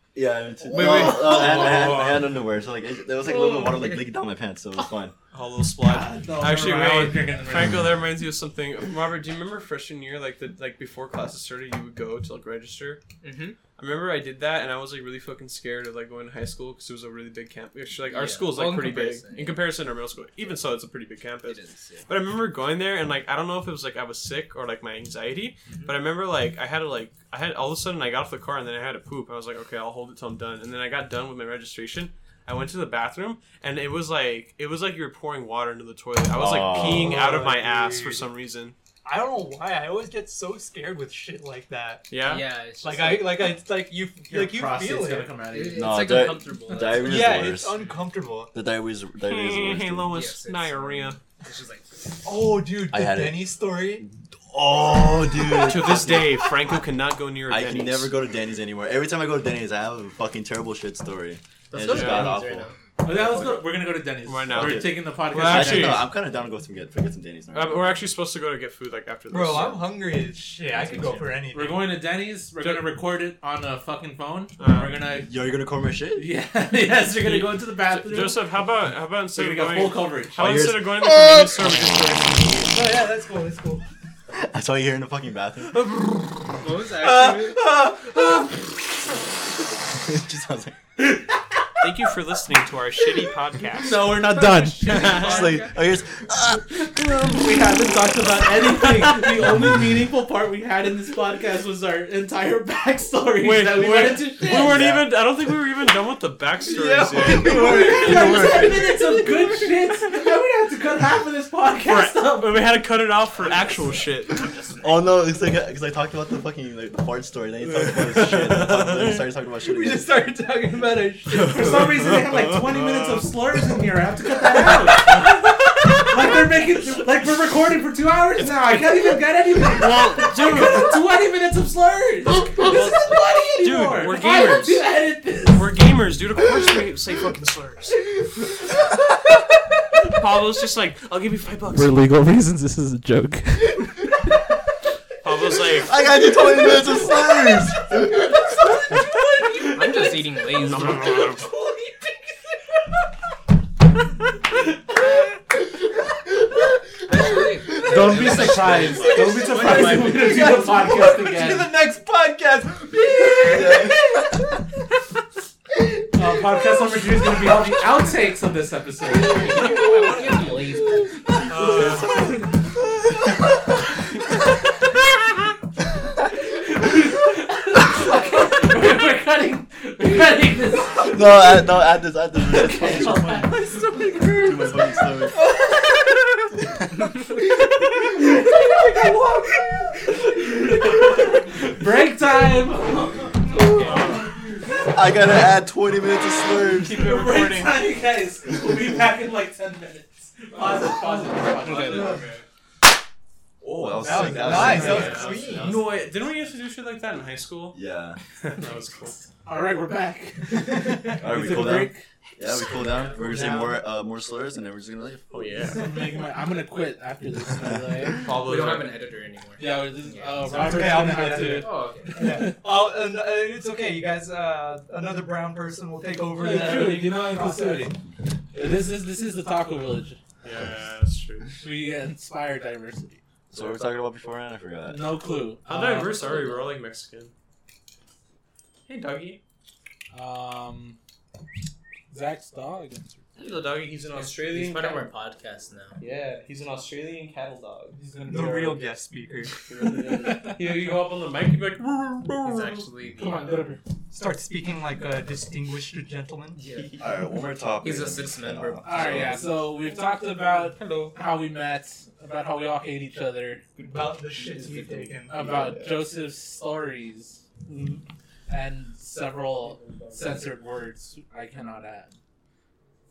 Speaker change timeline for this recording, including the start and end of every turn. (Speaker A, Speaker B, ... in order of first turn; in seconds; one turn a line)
Speaker A: 0.1-5.1
Speaker B: 0.7-2.0
Speaker C: 0.7-2.3
Speaker B: 3.2-4.1
Speaker C: 5.3-13.0
Speaker D: 5.8-7.9
Speaker B: 13.2-13.6
Speaker C: 13.8-38.8
Speaker B: 18.1-19.6
Speaker B: 21.4-22.1
Speaker B: 25.7-25.9
Speaker A: 36.3-37.2
Speaker E: 36.6-38.3
Speaker E: 39.0-42.2
Speaker C: 42.1-42.5
Speaker B: 42.2-43.6
Speaker E: 42.8-45.4
Speaker D: 44.3-46.1
Speaker B: 45.5-47.5
Speaker A: 45.7-47.8
Speaker E: 47.0-48.5
Speaker A: 48.5-50.1
Speaker C: 49.2-51.2
Speaker B: 50.1-52.1
Speaker E: 52.2-54.0
Speaker A: 52.9-56.4
Speaker E: 55.3-56.5
Speaker C: 55.6-58.1
Speaker A: 57.5-63.6
Speaker B: 61.7-62.8
Speaker C: 61.8-62.4
Speaker D: 63.0-66.0
Speaker C: 64.2-66.1
Speaker A: 64.5-68.0
Speaker C: 67.5-69.8
Speaker E: 69.3-71.8
Speaker D: 71.5-75.3
Speaker C: 72.6-72.9
Speaker C: 74.6-75.0
Speaker A: 75.2-76.3
Speaker D: 76.2-78.5
Speaker C: 77.2-82.8
Speaker D: 79.3-80.6
Speaker A: 80.4-81.9
Speaker E: 82.7-83.8
Speaker A: 84.3-85.9
Speaker E: 85.9-88.7
Speaker B: 86.6-87.7
Speaker A: 89.8-90.8
Speaker C: 91.8-95.5
Speaker D: 93.8-95.4
Speaker A: 94.9-97.5
Speaker B: 94.9-95.8
Speaker D: 96.7-104.8
Speaker C: 98.9-99.4
Speaker C: 103.4-108.4
Speaker A: 104.5-105.1
Speaker E: 106.7-109.7
Speaker D: 107.2-112.7
Speaker C: 111.8-114.4
Speaker B: 114.3-114.9
Speaker A: 114.7-120.0
Speaker C: 117.6-119.3
Speaker E: 119.6-122.1
Speaker D: 121.4-135.7
Speaker C: 121.6-123.3
Speaker E: 124.8-125.0
Speaker C: 125.0-126.0
Speaker C: 128.7-129.0
Speaker C: 129.6-131.0
Speaker C: 132.4-134.8
Speaker C: 135.4-138.0
Speaker C: 140.1-141.9
Speaker D: 141.7-143.9
Speaker C: 145.2-145.9
Speaker A: 145.8-148.4
Speaker E: 146.4-146.8
Speaker C: 149.5-151.5
Speaker B: 149.7-151.4
Speaker B: 157.1-160.7
Speaker D: 157.8-161.7
Speaker C: 158.1-158.5
Speaker E: 158.8-164.3
Speaker A: 163.4-164.0
Speaker D: 166.1-171.1
Speaker E: 169.6-170.2
Speaker B: 169.6-170.0
Speaker A: 171.2-172.9
Speaker C: 171.4-172.3
Speaker D: 176.5-181.8
Speaker A: 181.0-183.3
Speaker D: 182.3-184.8
Speaker A: 184.3-185.5
Speaker E: 185.6-185.9
Speaker A: 186.7-187.1
Speaker E: 188.3-190.1
Speaker D: 188.3-189.2
Speaker D: 190.0-194.3
Speaker B: 193.6-194.1
Speaker C: 193.8-194.2
Speaker A: 194.8-197.2
Speaker E: 196.8-197.9
Speaker D: 196.8-202.2
Speaker B: 201.6-202.2
Speaker C: 201.6-202.4
Speaker E: 201.9-202.2
Speaker A: 203.6-205.3
Speaker D: 204.0-205.2
Speaker E: 204.0-205.8
Speaker B: 204.4-205.9
Speaker C: 204.4-207.8
Speaker A: 207.7-208.2
Speaker C: 208.4-209.2
Speaker D: 209.4-212.0
Speaker E: 210.9-211.2
Speaker A: 211.1-215.6
Speaker B: 212.6-213.5
Speaker E: 213.2-213.7
Speaker D: 213.3-213.6
Speaker C: 215.3-215.9
Speaker D: 215.7-218.2
Speaker C: 218.2-219.0
Speaker B: 218.4-222.4
Speaker D: 219.6-222.6
Speaker E: 220.5-227.9
Speaker D: 226.3-227.9
Speaker D: 228.5-230.2
Speaker C: 230.4-231.6
Speaker D: 231.6-233.2
Speaker A: 233.5-235.1
Speaker D: 234.8-236.5
Speaker C: 235.7-237.3
Speaker C: 238.9-239.4
Speaker D: 240.1-241.0
Speaker D: 242.1-243.2
Speaker C: 243.4-245.1
Speaker B: 244.1-246.0
Speaker C: 246.0-248.0
Speaker D: 247.9-248.8
Speaker E: 248.3-249.6
Speaker C: 249.6-252.9
Speaker D: 250.2-250.7
Speaker B: 252.4-253.7
Speaker D: 253.2-253.8
Speaker E: 254.1-256.7
Speaker B: 256.6-257.0
Speaker A: 257.0-259.4
Speaker B: 257.8-259.1
Speaker D: 258.8-263.6
Speaker C: 260.8-261.1
Speaker C: 263.8-265.9
Speaker E: 263.8-265.6
Speaker D: 265.3-267.4
Speaker C: 267.6-268.0
Speaker D: 268.5-272.1
Speaker B: 269.6-270.5